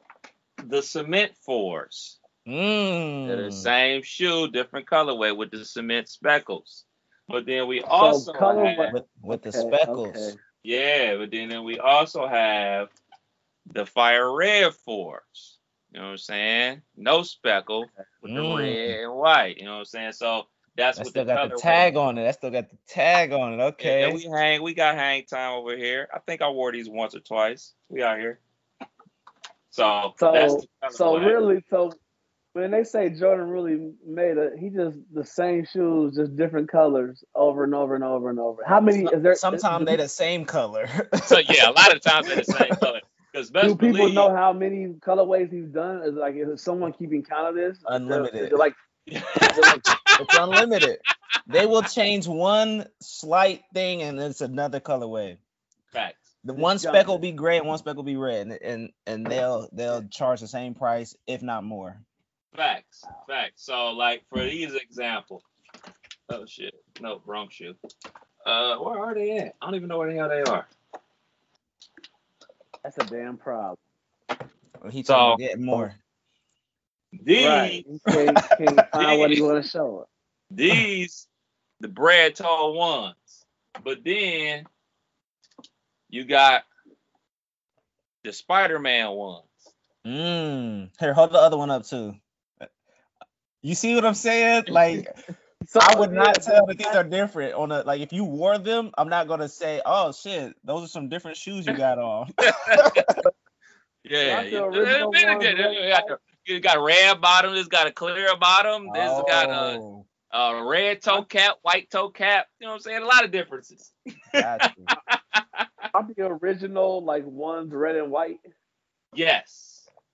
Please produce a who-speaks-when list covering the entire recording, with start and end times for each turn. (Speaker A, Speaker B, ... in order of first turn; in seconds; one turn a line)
Speaker A: 0.6-2.2
Speaker B: 2.5-3.7
Speaker A: 3.2-8.9
Speaker C: 7.9-10.4
Speaker B: 8.9-10.3
Speaker A: 10.6-12.9
Speaker A: 13.7-21.9
Speaker B: 18.2-18.9
Speaker B: 20.9-24.2
Speaker A: 23.8-28.4
Speaker A: 29.7-31.4
Speaker C: 30.2-32.0
Speaker C: 32.5-39.9
Speaker B: 39.0-42.8
Speaker A: 41.3-44.3
Speaker C: 43.6-48.7
Speaker B: 47.9-48.6
Speaker A: 49.1-50.6
Speaker C: 49.4-49.8
Speaker B: 50.2-55.4
Speaker A: 55.9-56.3
Speaker B: 56.4-62.0
Speaker C: 56.5-57.2
Speaker A: 62.5-65.4
Speaker A: 66.3-67.8
Speaker A: 68.5-70.7
Speaker C: 72.8-73.8
Speaker B: 74.8-76.0
Speaker A: 75.0-75.4
Speaker A: 77.2-77.8
Speaker C: 77.3-80.1
Speaker A: 79.0-79.5
Speaker A: 80.5-81.3
Speaker A: 81.8-84.7
Speaker A: 86.1-86.6
Speaker A: 88.2-89.7
Speaker B: 90.0-92.2
Speaker B: 93.6-95.1
Speaker A: 94.7-95.0
Speaker C: 95.6-97.0
Speaker B: 95.8-103.2
Speaker A: 102.4-103.0
Speaker A: 104.0-109.8
Speaker C: 104.2-106.2
Speaker B: 108.8-110.0
Speaker A: 110.3-115.7
Speaker B: 114.4-114.9
Speaker C: 115.9-118.4
Speaker A: 119.1-119.9